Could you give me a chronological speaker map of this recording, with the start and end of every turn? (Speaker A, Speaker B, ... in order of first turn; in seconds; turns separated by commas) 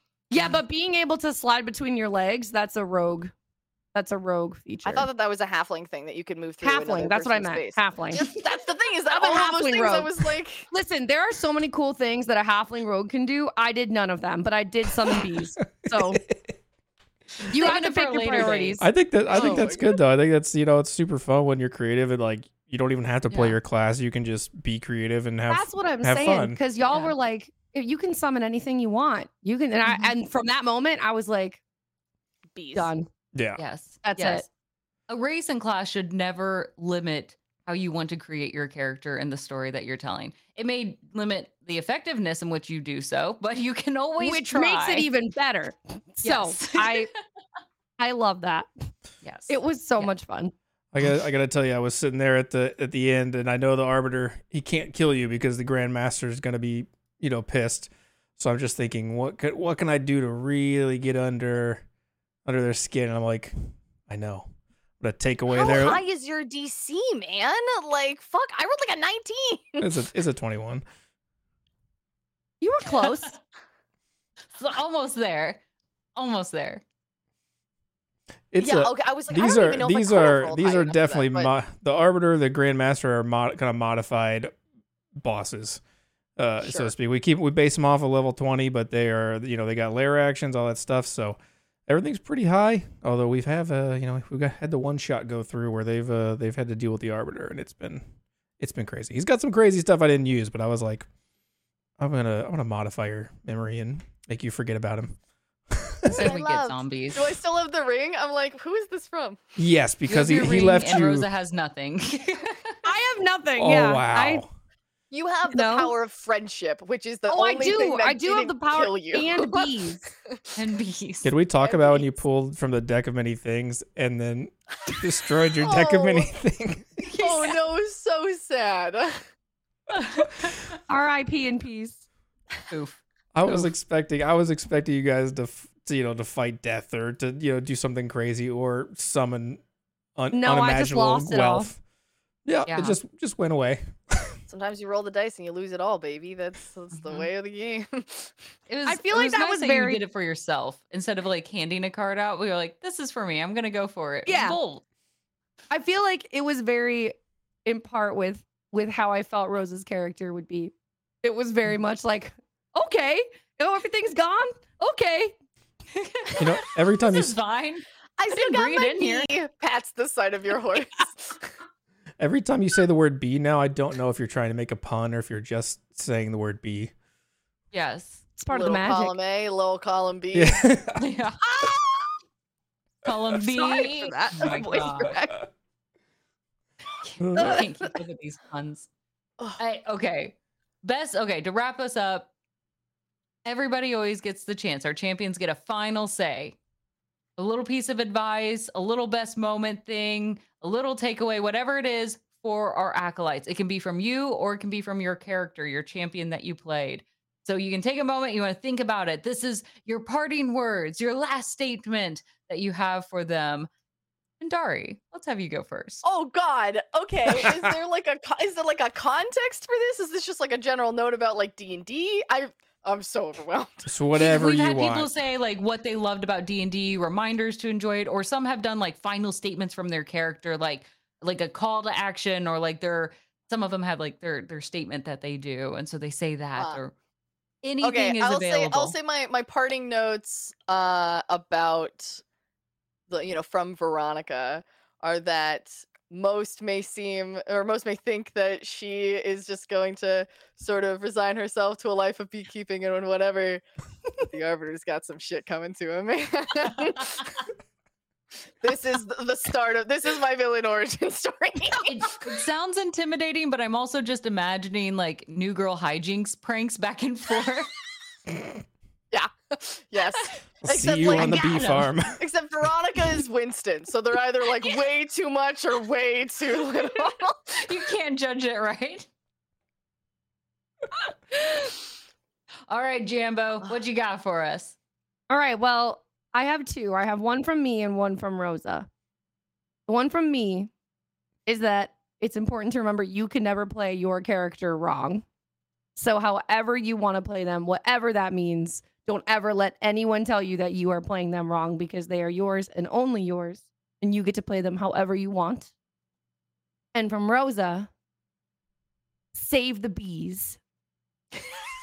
Speaker A: 0.3-3.3, Speaker B: 0.3-0.6, Speaker A: 3.9-5.1, Speaker C: 4.8-10.7, Speaker A: 6.6-8.2, Speaker A: 9.1-10.1, Speaker A: 10.7-16.2, Speaker D: 16.0-16.5, Speaker B: 17.5-18.8, Speaker A: 17.5-19.7, Speaker D: 18.8-26.6, Speaker C: 19.3-19.9, Speaker B: 23.3-23.6, Speaker A: 25.5-31.6, Speaker B: 26.9-27.1, Speaker B: 29.9-30.1, Speaker C: 32.5-32.9, Speaker A: 32.7-33.1, Speaker D: 33.4-33.6, Speaker B: 33.6-34.5, Speaker A: 34.0-34.5, Speaker B: 35.1-45.1, Speaker A: 44.2-47.1, Speaker B: 46.2-47.1, Speaker A: 48.0-48.7, Speaker B: 49.2-50.1, Speaker A: 49.5-50.5, Speaker D: 50.9-61.8, Speaker D: 62.5-63.5, Speaker D: 64.1-64.5, Speaker D: 65.0-66.0, Speaker C: 65.5-69.9, Speaker D: 69.8-70.8, Speaker A: 72.6-73.3, Speaker B: 74.6-75.6, Speaker B: 76.2-76.8, Speaker D: 78.5-84.5, Speaker C: 78.6-81.5, Speaker D: 85.2-85.8, Speaker D: 86.4-98.0, Speaker C: 86.6-86.9, Speaker D: 98.6-101.1, Speaker D: 102.0-105.2, Speaker D: 105.7-106.3, Speaker C: 106.1-109.4, Speaker B: 106.1-107.3, Speaker D: 109.6-111.3, Speaker B: 110.1-112.8, Speaker A: 112.8-114.4, Speaker D: 113.6-114.5, Speaker C: 115.1-119.7, Speaker A: 115.5-115.9, Speaker A: 117.3-120.1, Speaker B: 120.6-121.3, Speaker D: 121.2-127.0, Speaker C: 121.6-122.1, Speaker C: 125.6-126.3, Speaker B: 127.0-127.6, Speaker C: 127.2-129.2, Speaker B: 129.9-130.8, Speaker A: 130.9-132.0, Speaker B: 132.7-133.0, Speaker D: 133.3-139.6, Speaker D: 140.2-141.8, Speaker A: 140.3-141.7, Speaker D: 142.4-144.3, Speaker B: 142.7-143.0, Speaker C: 144.5-148.3, Speaker B: 147.0-147.3, Speaker B: 148.7-154.8, Speaker A: 148.9-150.0, Speaker A: 154.3-154.6, Speaker A: 155.7-165.3, Speaker B: 166.0-169.4, Speaker D: 166.4-167.3, Speaker C: 168.2-171.5, Speaker D: 172.2-176.9, Speaker B: 177.7-178.2, Speaker A: 178.4-179.1, Speaker C: 178.5-180.7, Speaker D: 180.3-181.0, Speaker B: 181.0-181.4, Speaker B: 183.0-185.2, Speaker A: 183.4-185.5, Speaker B: 187.0-188.9, Speaker D: 187.2-187.6, Speaker A: 187.4-187.7, Speaker B: 189.6-192.3, Speaker B: 193.4-196.6, Speaker B: 197.4-213.7, Speaker B: 214.4-216.0, Speaker C: 216.0-223.9, Speaker D: 223.9-225.1, Speaker B: 224.2-236.9, Speaker B: 237.6-239.0, Speaker C: 237.8-242.2, Speaker C: 243.1-253.6, Speaker C: 254.1-257.3, Speaker C: 258.6-262.0, Speaker B: 261.9-267.7, Speaker C: 269.1-277.2, Speaker D: 270.6-272.2, Speaker B: 271.1-271.9, Speaker B: 277.0-279.1, Speaker B: 281.3-281.8, Speaker B: 282.7-284.8, Speaker A: 285.3-288.9, Speaker A: 289.9-290.7, Speaker A: 291.5-295.2, Speaker A: 296.0-305.7, Speaker A: 306.9-307.9, Speaker A: 309.3-310.6